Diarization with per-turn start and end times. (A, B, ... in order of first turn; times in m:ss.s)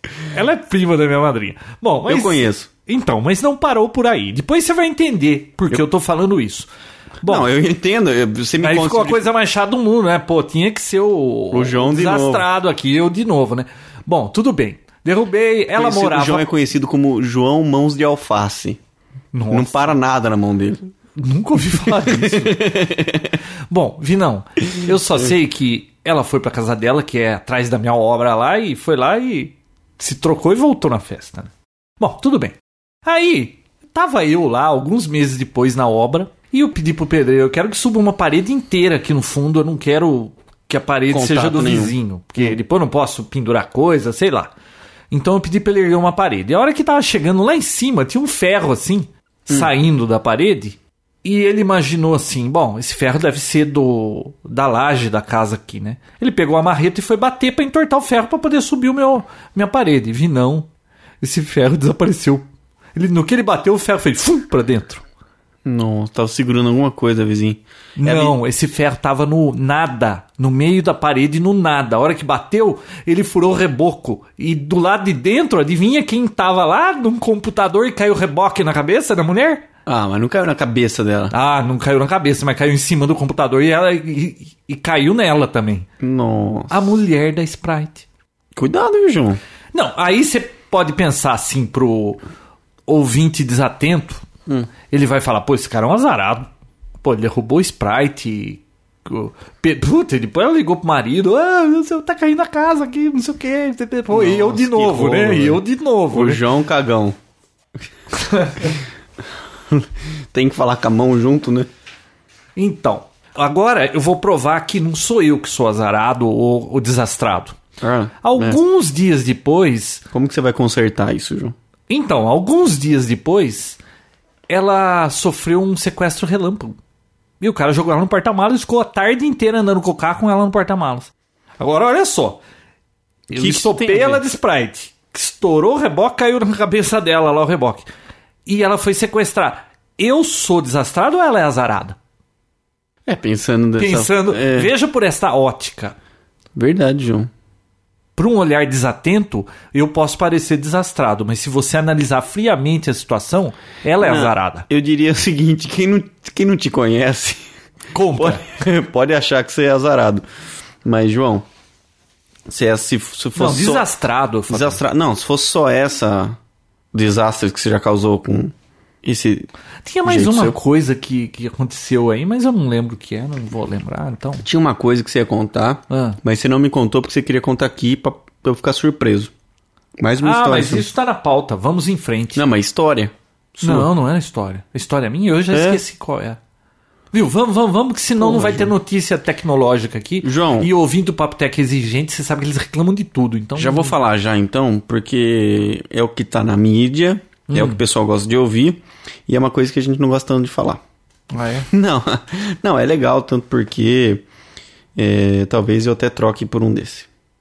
0:00.3-0:06.7 A
0:02.1-0:02.7 B
0:07.2-0:07.5 A
0:07.2-0:09.3 B
0:08.6-0:16.4 A
0:11.5-0:12.4 B
0:15.8-0:18.8 B
0:19.3-0:19.9 A
0:19.5-0:20.8 B
0:21.2-0:22.6 A
0:21.8-0:23.4 B
0:23.7-0:44.5 A
0:41.1-0:42.6 B
0:45.1-1:00.7 A
1:01.2-1:05.0 A
1:05.6-1:08.4 B
1:08.0-1:19.6 A
1:19.8-1:21.3 B
1:21.3-1:25.8 A
1:26.0-1:26.8 B
1:26.7-1:28.0 A
1:28.6-1:29.4 B
1:29.7-1:32.2 A
1:32.9-1:34.2 A
1:34.9-1:36.5 A
1:37.0-1:46.4 A
1:44.1-1:47.2 B
1:48.1-1:48.7 A
1:49.7-1:51.7 B
1:52.6-1:57.6 A
1:57.8-1:58.6 B
1:58.2-2:00.0 A
2:00.1-2:01.5 B
2:01.9-2:03.8 A
2:04.5-2:06.8 A
2:07.4-2:12.4 A
2:13.3-2:14.2 B
2:13.3-2:17.9 A
2:18.5-2:22.0 A
2:23.0-2:24.7 B
2:23.8-2:26.0 A
2:26.5-2:27.3 B
2:28.2-2:34.6 A
2:34.0-2:37.5 B
2:37.9-2:38.5 A
2:38.1-2:40.2 B
2:40.8-2:41.4 B
2:42.5-2:43.8 B
2:43.4-2:44.8 A
2:44.5-2:46.4 B
2:46.9-2:48.5 B
2:49.0-2:49.5 B
2:49.8-2:54.4 A
2:50.0-2:50.6 B
2:54.4-2:59.3 B
2:55.9-2:56.2 A
3:00.0-3:00.8 B
3:00.2-3:02.4 A
3:02.4-3:03.9 B
3:03.6-3:06.4 A
3:05.5-3:05.8 B
3:07.1-3:13.9 A
3:08.2-3:08.7 B
3:10.2-3:10.7 B
3:13.6-3:20.8 B
3:17.5-3:17.8 A
3:21.3-3:21.7 A
3:21.7-3:24.2 B
3:25.0-3:27.1 B